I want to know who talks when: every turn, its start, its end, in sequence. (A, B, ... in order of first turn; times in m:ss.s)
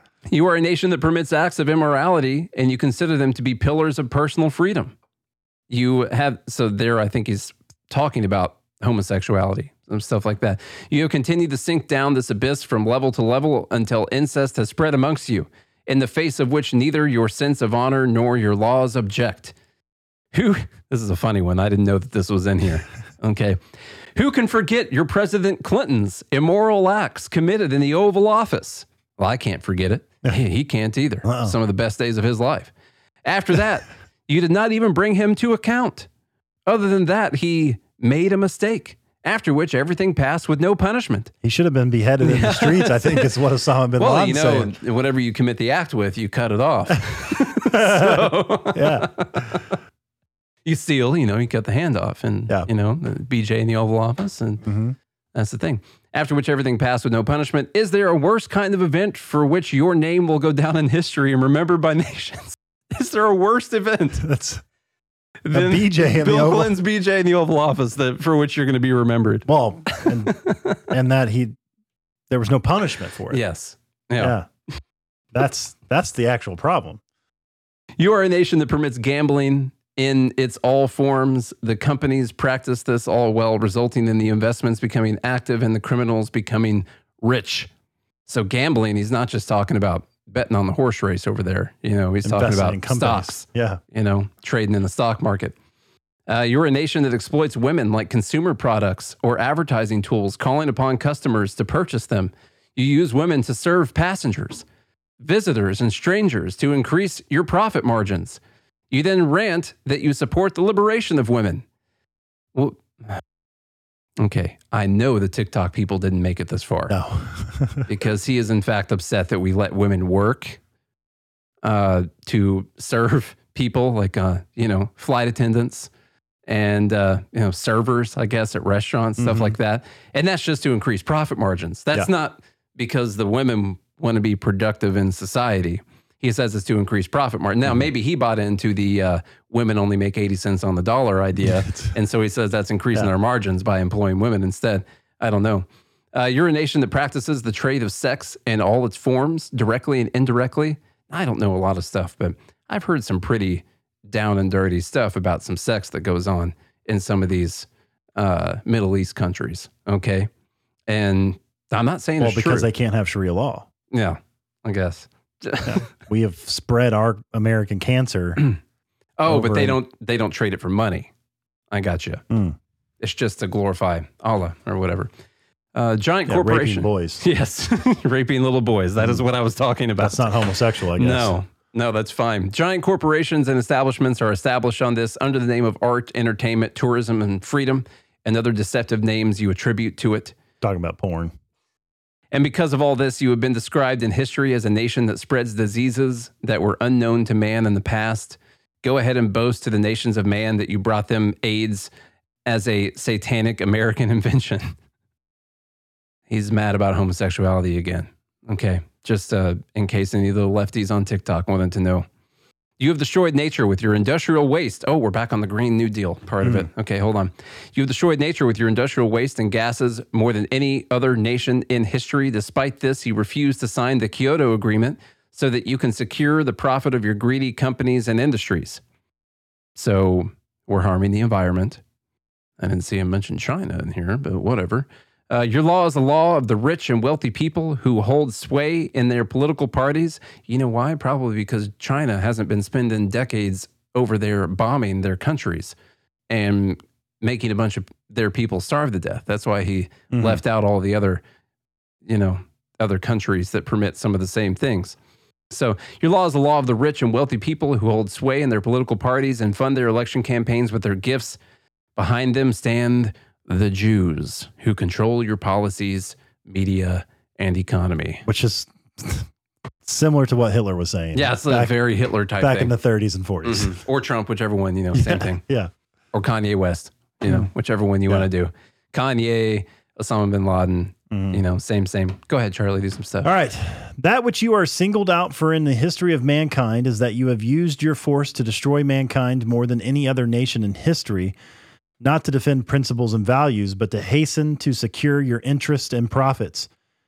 0:00.3-0:04.9 A
0:05.7-0:19.5 A
0:20.3-0:23.6 A
0:24.2-0:32.7 A
0:31.2-0:31.6 B
0:33.2-0:36.1 A
0:36.7-0:41.3 A
0:41.4-0:44.7 B
0:42.2-0:43.3 A
0:44.0-0:49.8 A
0:47.7-0:49.5 B
0:50.6-0:54.6 A
0:54.6-0:55.0 B
0:55.4-1:04.2 A
1:04.2-1:04.6 B
1:05.4-1:10.8 A
1:05.5-1:06.7 B
1:09.5-1:10.4 B
1:10.9-1:11.6 B
1:12.3-1:13.4 B
1:13.3-1:14.4 A
1:14.2-1:14.5 B
1:15.3-1:17.0 B
1:18.0-1:27.7 A
1:28.3-1:35.6 A
1:32.2-1:33.8 B
1:36.3-1:44.7 A
1:45.2-1:48.4 A
1:48.9-1:51.6 A
1:52.6-1:53.2 A
1:54.2-1:57.0 A
1:56.9-1:57.9 B
1:57.9-2:00.6 A
2:01.6-2:05.9 A
2:06.5-2:37.7 A
2:09.2-2:09.6 B
2:21.4-2:22.0 B
2:38.2-2:40.3 A
2:40.9-2:42.7 A
2:42.2-2:43.7 B
2:43.9-2:45.8 A
2:45.6-2:48.4 B
2:49.2-2:51.1 A
2:49.3-2:49.8 B
2:51.7-2:52.2 A
2:52.3-2:52.6 B
2:53.0-2:55.1 A
2:55.8-3:10.3 A
2:56.3-2:57.2 B
2:59.0-2:59.2 B
3:00.0-3:01.4 B
3:10.6-3:11.3 B
3:12.3-3:21.9 A
3:22.5-3:24.8 A
3:26.3-3:32.1 A
3:32.8-3:48.8 A
3:36.4-3:36.7 B
3:49.8-3:51.8 A
3:52.6-4:05.7 A
4:06.3-4:11.2 A
4:10.1-4:10.4 B
4:12.0-4:15.0 A
4:15.5-4:21.4 A
4:22.0-4:28.2 A
4:28.3-4:29.3 B
4:29.8-4:31.7 B
4:31.1-4:32.7 A
4:32.4-4:33.8 B
4:33.4-4:35.4 A
4:34.9-4:35.7 B
4:36.1-4:43.3 A
4:41.1-4:41.4 B
4:43.2-4:51.4 B
4:52.0-4:56.7 B